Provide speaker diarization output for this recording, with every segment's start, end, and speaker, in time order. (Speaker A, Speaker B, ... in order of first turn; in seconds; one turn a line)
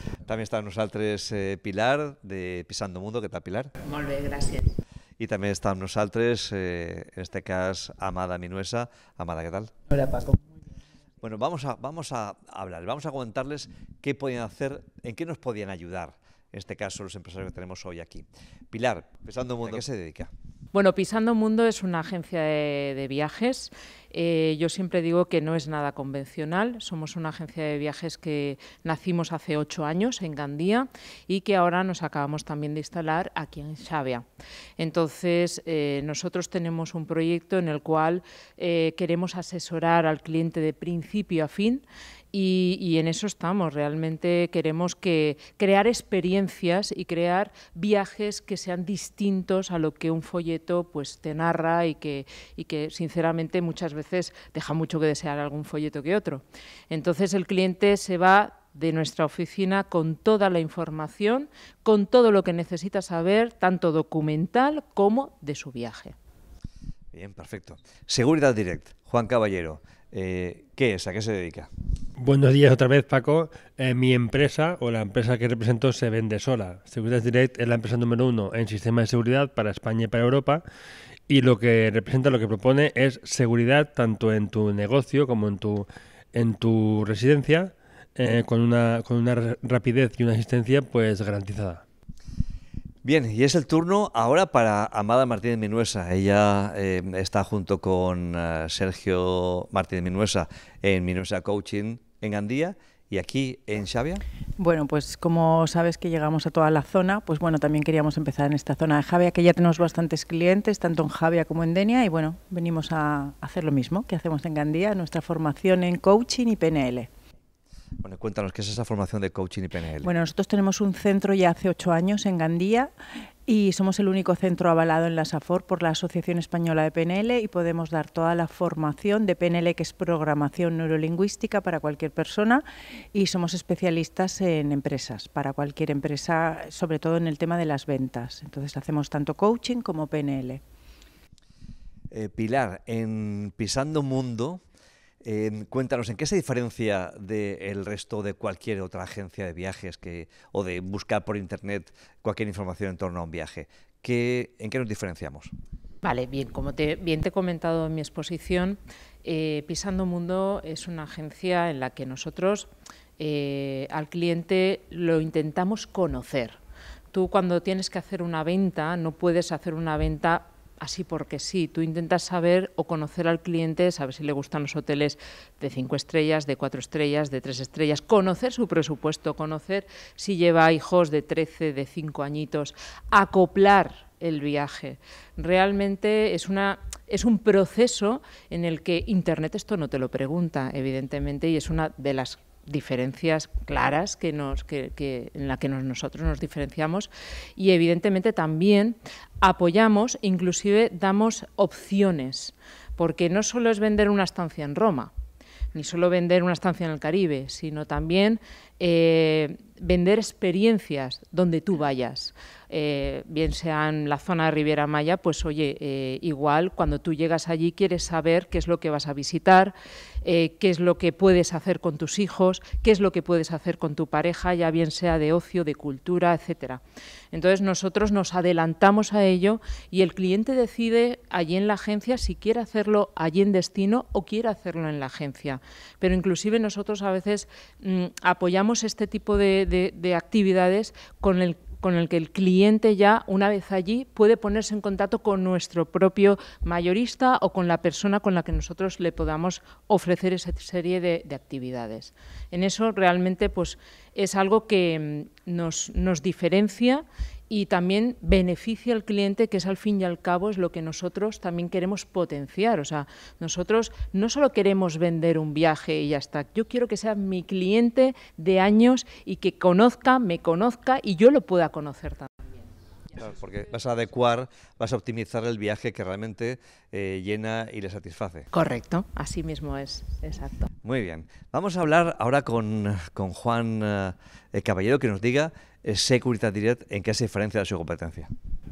Speaker A: 0.3-3.7
Speaker B: 3.8-4.7
Speaker A: 5.2-9.7
Speaker A: 11.2-20.3
Speaker B: 20.7-34.3
Speaker B: 34.8-66.2
Speaker A: 67.1-71.7
Speaker C: 72.2-80.6
Speaker C: 81.3-91.8
Speaker A: 93.0-104.2
Speaker D: 104.6-117.1
Speaker A: 118.0-120.1
Speaker D: 120.0-122.9
Speaker D: 123.5-140.6
Speaker A: 142.1-144.6
Speaker A: 145.2-155.5
Speaker B: 156.0-166.6
Speaker B: 167.1-205.1
Speaker B: 205.7-226.8
Speaker B: 227.3-272.3
Speaker A: 273.1-278.5
Speaker B: 278.5-280.7
Speaker A: 280.8-288.3